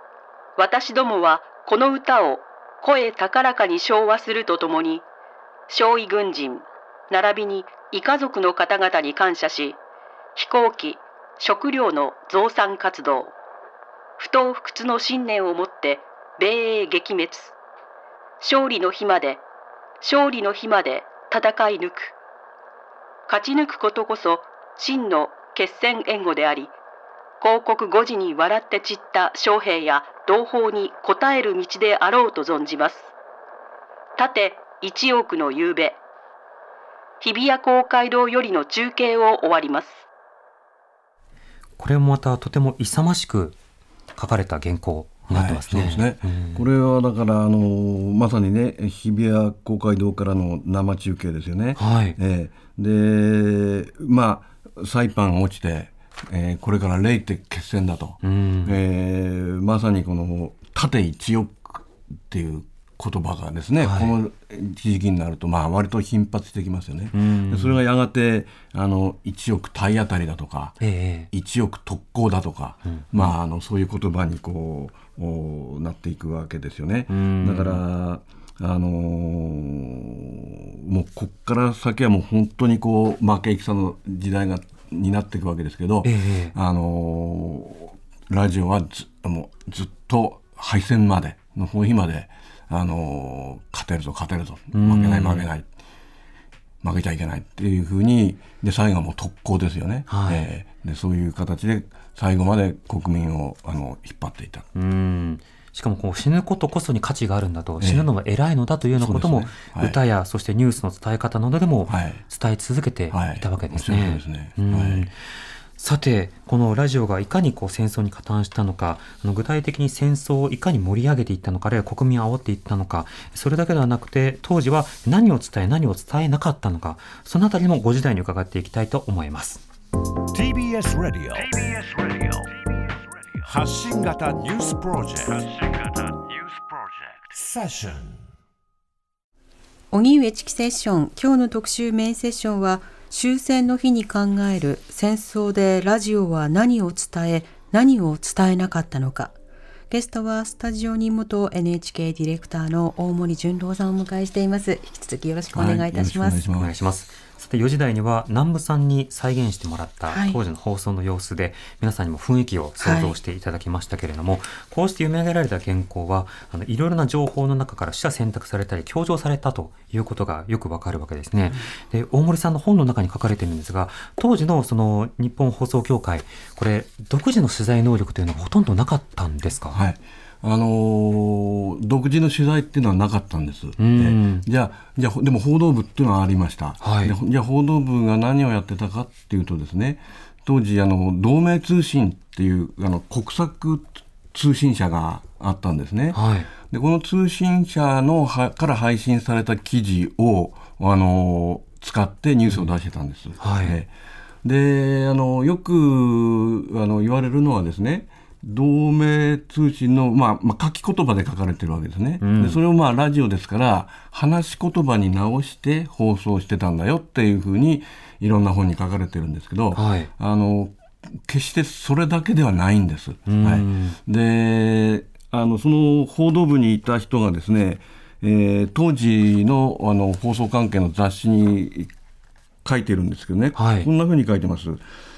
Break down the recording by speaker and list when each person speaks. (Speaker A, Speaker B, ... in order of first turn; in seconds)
Speaker A: 0.6-5.0, 5.7-9.8, 10.3-13.3, 14.2-17.5, 18.4-19.4, 20.0-22.1, 23.3-26.7, 27.4-33.1, 34.2-36.0, 37.2-40.0
Speaker B: 41.8-43.5, 44.1-46.6, 51.8-52.2, 58.2-58.8, 63.8-64.1, 67.1-67.8, 70.8-71.3, 72.8-73.3, 77.1-77.8, 86.0-86.5, 94.7-95.5, 100.1-100.5, 104.7-115.1, 115.8-129.6, 156.6-179.8, 183.8-184.4, 186.8-187.1, 196.1-196.5, 203.4-203.8, 212.2-212.6, 219.7-220.1, 223.3-224.0, 233.6-233.9
Speaker C: 45.3-70.8, 71.3-95.7, 96.8-104.7, 107.8-108.1, 109.0-110.0, 111.9-112.2, 113.1-115.1, 155.5-156.8, 179.7-203.9, 204.4-231.9, 232.6-234.8
Speaker D: 130.3-138.2
Speaker E: 139.9-149.3, 149.9-156.4, 160.1-160.4, 162.8-163.1